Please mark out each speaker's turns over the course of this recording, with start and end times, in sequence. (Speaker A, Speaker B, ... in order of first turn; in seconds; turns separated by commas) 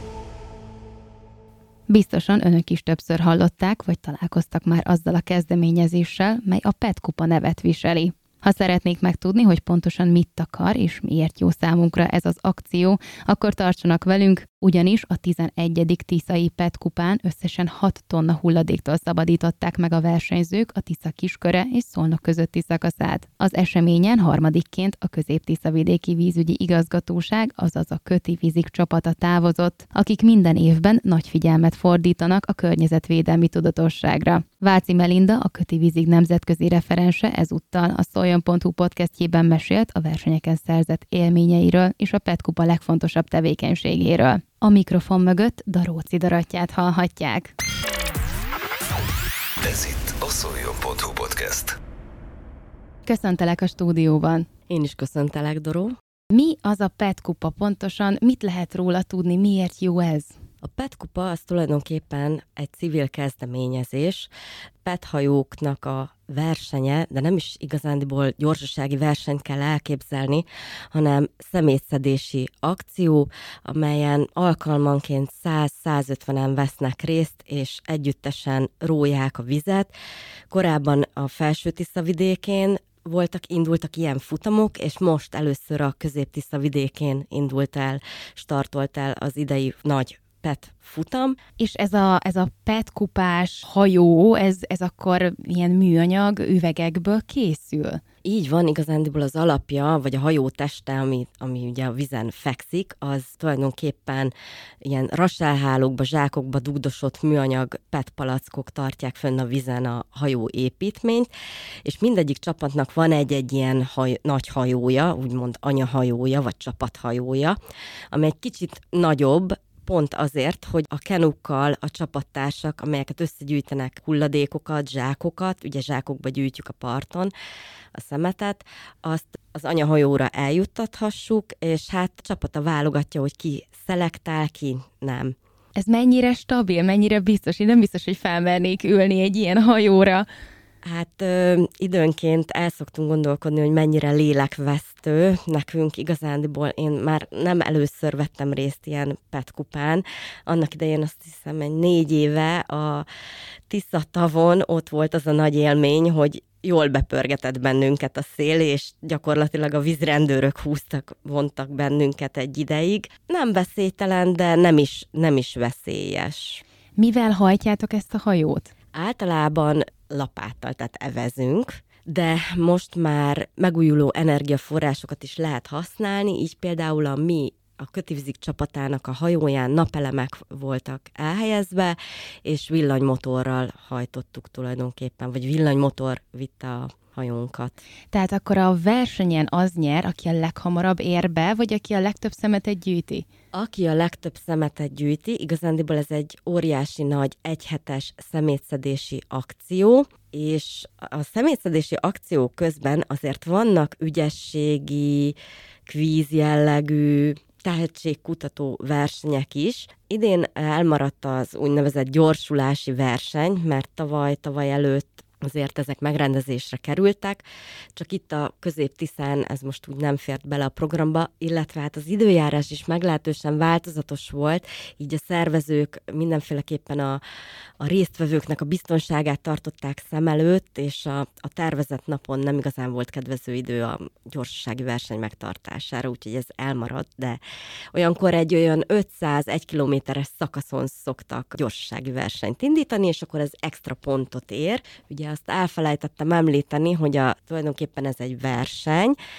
Speaker A: 1.9-47.5, Speaker B: 49.6-51.8, Speaker A: 53.1-54.5, Speaker C: 54.7-56.0, Speaker A: 56.3-60.4, Speaker C: 60.6-64.3, Speaker C: 64.8-79.9, Speaker C: 80.5-91.4, Speaker A: 91.6-98.0, Speaker C: 98.2-104.3, Speaker C: 104.8-111.3, Speaker C: 111.8-117.6, Speaker C: 118.1-127.3, Speaker C: 128.0-135.4, Speaker A: 135.8-140.3, Speaker C: 140.8-153.1, Speaker C: 153.7-166.6, Speaker A: 167.0-168.7, Speaker C: 168.9-187.8, Speaker A: 188.1-193.2, Speaker C: 193.5-217.4, Speaker C: 218.0-227.2, Speaker C: 227.8-237.4, Speaker C: 237.9-249.2